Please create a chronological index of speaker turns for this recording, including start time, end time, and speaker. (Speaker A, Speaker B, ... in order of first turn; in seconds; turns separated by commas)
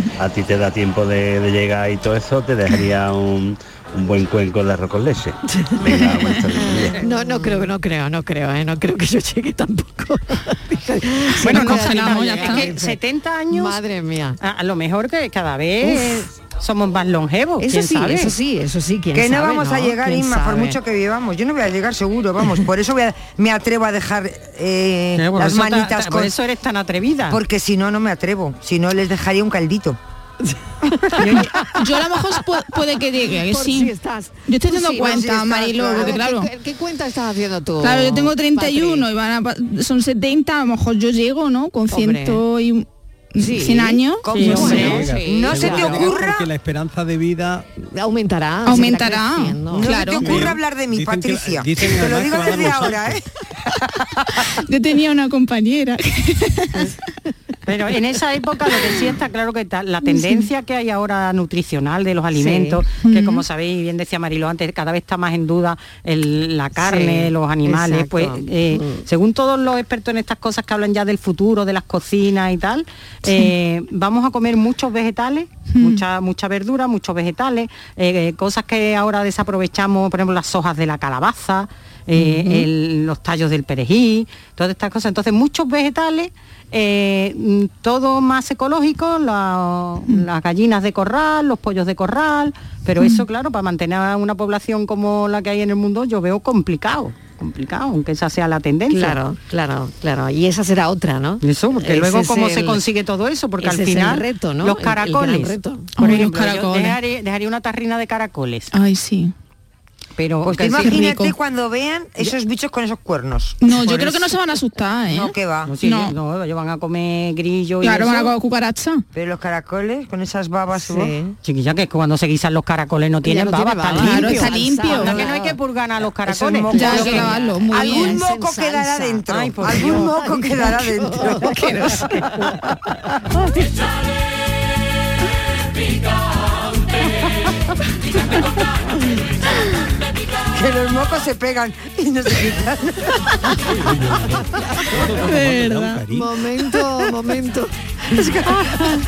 Speaker A: 0.2-7.0, Speaker B: 5.5-6.0, Speaker B: 6.8-13.0, Speaker C: 11.4-13.8, Speaker D: 11.4-12.7, Speaker B: 13.5-14.4, Speaker C: 14.4-18.3, Speaker B: 15.8-16.2, Speaker B: 17.6-20.8, Speaker E: 19.1-26.3, Speaker C: 25.2-27.4, Speaker E: 27.3-30.0, Speaker B: 30.4-31.8, Speaker C: 31.2-31.5, Speaker D: 31.6-33.9, Speaker B: 33.4-39.0, Speaker D: 34.5-36.5, Speaker E: 34.9-36.2, Speaker D: 37.8-44.9, Speaker B: 41.9-42.4, Speaker B: 43.4-46.2, Speaker E: 44.2-46.5, Speaker C: 44.3-45.1, Speaker F: 44.5-47.6, Speaker B: 47.8-49.9, Speaker D: 48.6-50.4, Speaker E: 49.7-54.4, Speaker F: 50.2-53.2, Speaker D: 54.6-56.9, Speaker C: 57.7-99.2, Speaker B: 62.4-62.8, Speaker D: 63.0-63.4, Speaker B: 66.8-69.0, Speaker D: 75.7-76.0, Speaker B: 82.2-82.7, Speaker B: 98.9-102.8, Speaker C: 101.4-108.7, Speaker B: 103.6-105.9, Speaker D: 106.0-107.0, Speaker D: 108.7-109.3, Speaker C: 110.2-111.0, Speaker E: 110.4-113.7, Speaker D: 110.8-111.3, Speaker D: 113.6-116.1, Speaker C: 113.7-114.2, Speaker E: 115.1-115.7, Speaker C: 115.7-118.3, Speaker D: 117.8-119.0, Speaker E: 119.1-121.1, Speaker B: 120.8-121.3, Speaker C: 121.4-127.3, Speaker B: 123.2-125.5, Speaker D: 124.0-125.2, Speaker E: 126.2-131.6, Speaker D: 126.7-128.2, Speaker B: 126.8-131.9, Speaker C: 129.3-130.1, Speaker D: 131.5-132.1, Speaker E: 140.5-143.2, Speaker F: 143.7-146.3, Speaker D: 145.2-146.0, Speaker B: 146.1-148.5, Speaker E: 148.1-148.8